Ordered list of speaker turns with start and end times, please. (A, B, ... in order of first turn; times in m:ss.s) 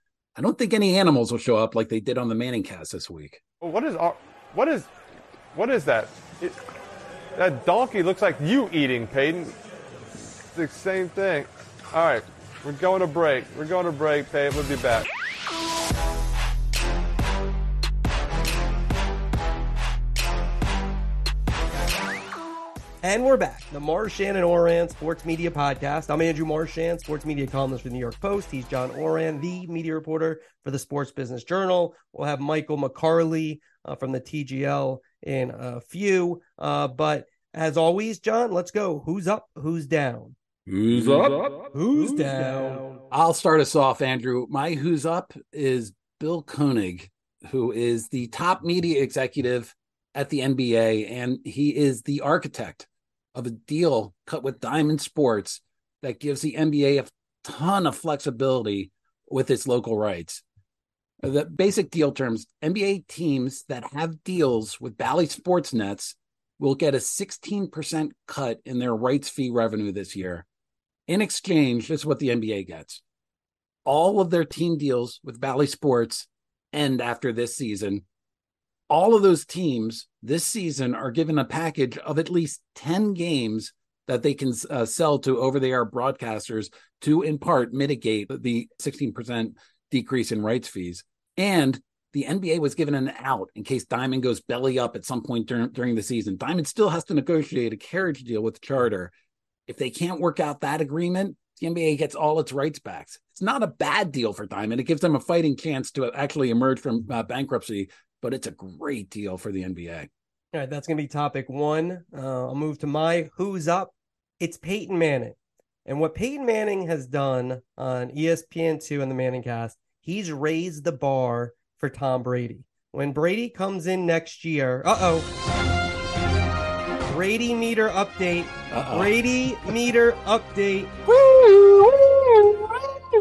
0:00.4-0:03.4 A
0:03.6-0:04.9 B
0:05.5-0:06.6 B
0:07.4-0:09.6 B
0:10.5-0:15.1 B
0:23.0-0:40.4 C
0:40.7-0:41.4 A
0:41.7-0:43.0 C
0:43.1-1:00.4 A
1:01.2-1:10.4 A
1:11.1-1:13.0 A
1:13.8-1:18.0 A
1:18.9-1:39.1 A
1:39.7-1:50.1 A
1:50.5-2:05.3 C
2:07.0-2:10.9 C
2:08.7-2:09.1 A
2:11.1-2:12.6 A